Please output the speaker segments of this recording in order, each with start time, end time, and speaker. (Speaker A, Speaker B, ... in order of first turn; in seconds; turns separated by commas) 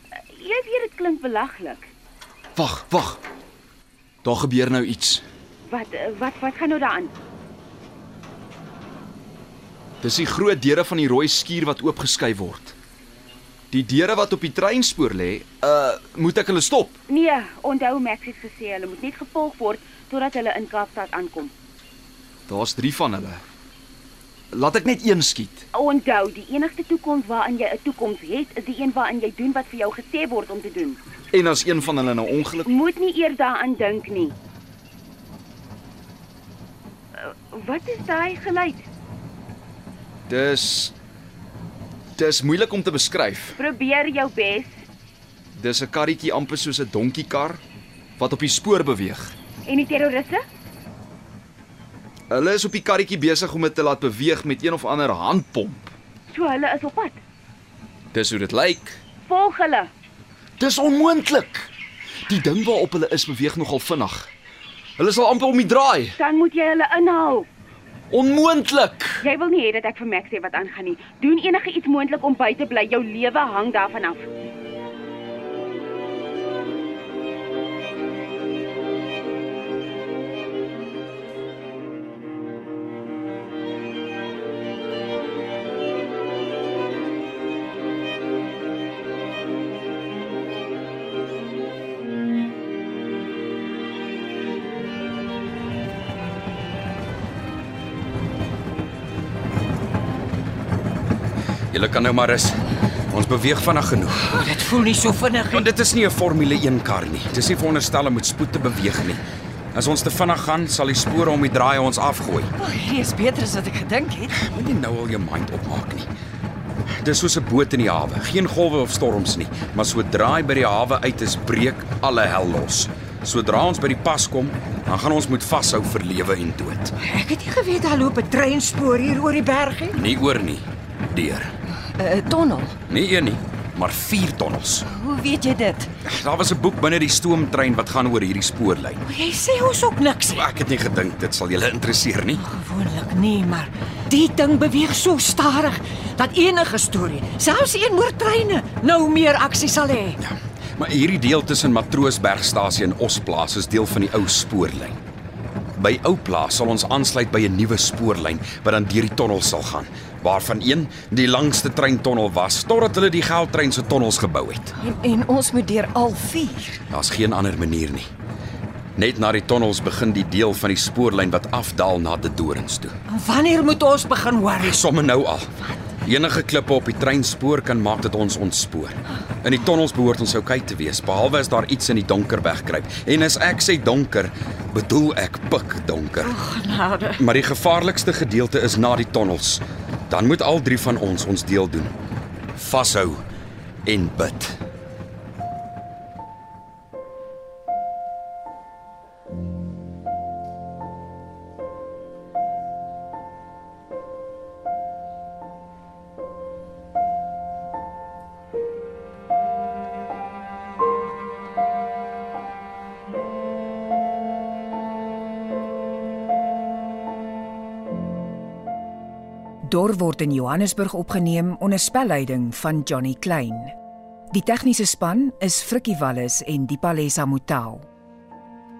Speaker A: 0.3-1.9, Speaker B: 2.5-3.2, Speaker B: 4.2-5.2, Speaker A: 5.7-7.1, Speaker B: 10.0-12.7, Speaker B: 13.7-17.0, Speaker A: 17.1-21.5, Speaker B: 22.5-23.4, Speaker B: 24.5-25.6, Speaker A: 25.7-31.0, Speaker B: 31.3-32.7, Speaker A: 32.6-34.3, Speaker A: 37.2-38.9, Speaker B: 40.3-40.9, Speaker B: 42.2-43.6, Speaker A: 43.6-44.8, Speaker B: 45.5-47.6, Speaker B: 48.2-49.3, Speaker A: 49.6-50.4, Speaker B: 52.3-55.9, Speaker A: 56.3-57.2, Speaker B: 58.1-59.0, Speaker A: 59.2-59.9, Speaker B: 60.6-61.7, Speaker B: 62.3-64.3, Speaker B: 65.0-66.2, Speaker A: 66.2-67.5, Speaker B: 68.1-69.2, Speaker A: 69.2-74.3, Speaker C: 101.7-104.4, Speaker D: 104.3-105.6, Speaker C: 105.5-112.5, Speaker E: 112.6-114.3, Speaker C: 114.4-116.1, Speaker C: 117.0-126.9, Speaker D: 127.0-130.0, Speaker C: 129.9-131.5, Speaker E: 131.8-132.8, Speaker C: 132.9-134.8, Speaker E: 134.8-135.9, Speaker C: 136.0-139.0, Speaker D: 139.1-140.4, Speaker C: 140.3-142.4, Speaker D: 142.3-150.2, Speaker C: 150.2-155.0, Speaker C: 155.8-164.7, Speaker E: 164.8-166.8, Speaker C: 166.9-168.1, Speaker C: 168.9-172.9, Speaker D: 173.1-174.7, Speaker C: 174.6-186.4, Speaker A: 186.4-187.1, Speaker F: 186.6-186.9, Speaker C: 187.2-191.9, Speaker C: 192.6-193.2, Speaker C: 193.8-194.6, Speaker F: 219.7-223.7, Speaker F: 224.3-227.9